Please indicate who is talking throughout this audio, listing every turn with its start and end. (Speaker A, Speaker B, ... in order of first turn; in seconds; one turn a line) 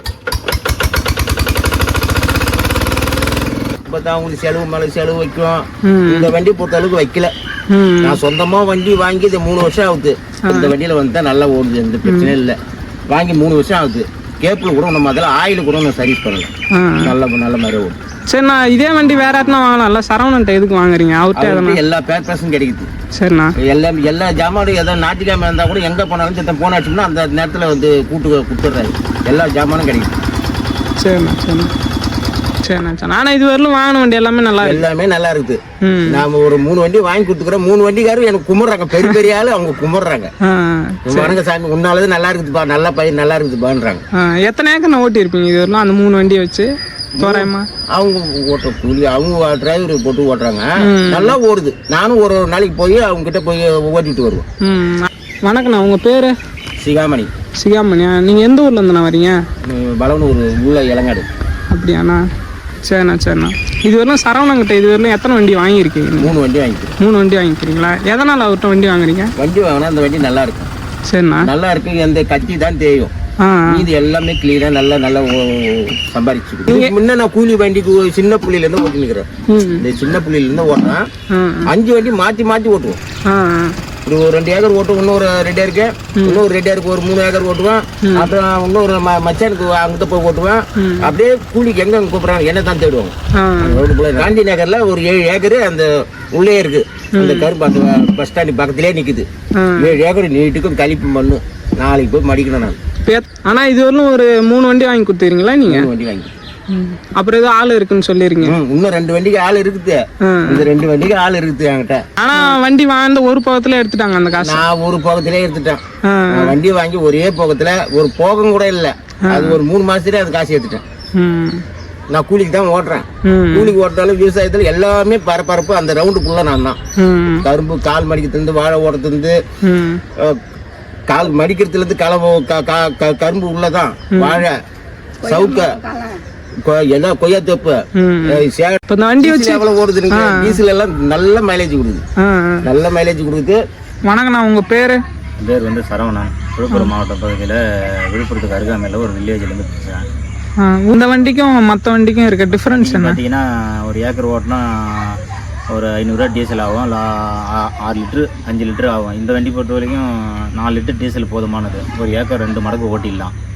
Speaker A: 3.9-7.3
Speaker B: 5.8-6.3
Speaker B: 7.7-8.2
Speaker A: 8.0-12.6
Speaker B: 10.5-10.7
Speaker B: 12.1-12.3
Speaker A: 13.1-16.5
Speaker B: 16.8-17.1
Speaker A: 17.0-17.9
Speaker B: 18.3-21.8
Speaker A: 21.4-22.9
Speaker B: 23.1-23.5
Speaker A: 23.6-30.2
Speaker B: 31.0-31.7
Speaker B: 32.6-34.8
Speaker A: 34.6-40.3
Speaker B: 35.8-36.2
Speaker B: 40.5-41.4
Speaker A: 41.1-44.0
Speaker B: 44.2-47.6
Speaker A: 47.2-54.5
Speaker B: 50.8-51.4
Speaker B: 54.6-56.3
Speaker A: 56.8-57.3
Speaker B: 57.6-59.4
Speaker A: 59.6-61.3
Speaker B: 61.7-62.2
Speaker B: 62.8-66.3
Speaker A: 66.2-66.9
Speaker B: 67.0-69.3
Speaker A: 69.4-70.7
Speaker B: 71.1-71.5
Speaker A: 71.4-73.1
Speaker B: 73.4-73.8
Speaker A: 73.7-81.0
Speaker B: 76.7-76.9
Speaker B: 79.5-79.8
Speaker B: 81.3-81.7
Speaker A: 81.7-83.0
Speaker B: 83.3-83.7
Speaker A: 84.0-99.3
Speaker B: 88.0-88.3
Speaker B: 90.8-91.1
Speaker B: 93.4-93.8
Speaker B: 97.1-97.5
Speaker B: 99.6-99.9
Speaker A: 99.8-102.8
Speaker B: 103.0-105.9
Speaker A: 105.7-106.3
Speaker B: 106.7-108.5
Speaker A: 108.4-112.4
Speaker B: 110.2-110.7
Speaker B: 112.2-114.6
Speaker A: 114.4-115.8
Speaker B: 116.1-116.5
Speaker A: 116.3-120.8
Speaker B: 119.3-119.6
Speaker B: 121.2-121.6
Speaker A: 122.1-126.8
Speaker B: 123.2-123.7
Speaker B: 127.0-127.5
Speaker A: 127.4-129.4
Speaker B: 129.6-130.0
Speaker A: 131.1-134.6
Speaker B: 134.1-134.4
Speaker A: 135.2-136.0
Speaker A: 136.7-142.0
Speaker B: 138.0-140.6
Speaker B: 142.2-142.6
Speaker A: 142.6-143.6
Speaker B: 144.1-145.0
Speaker C: 145.4-150.0
Speaker B: 150.6-153.2
Speaker C: 152.7-155.2
Speaker C: 155.7-163.3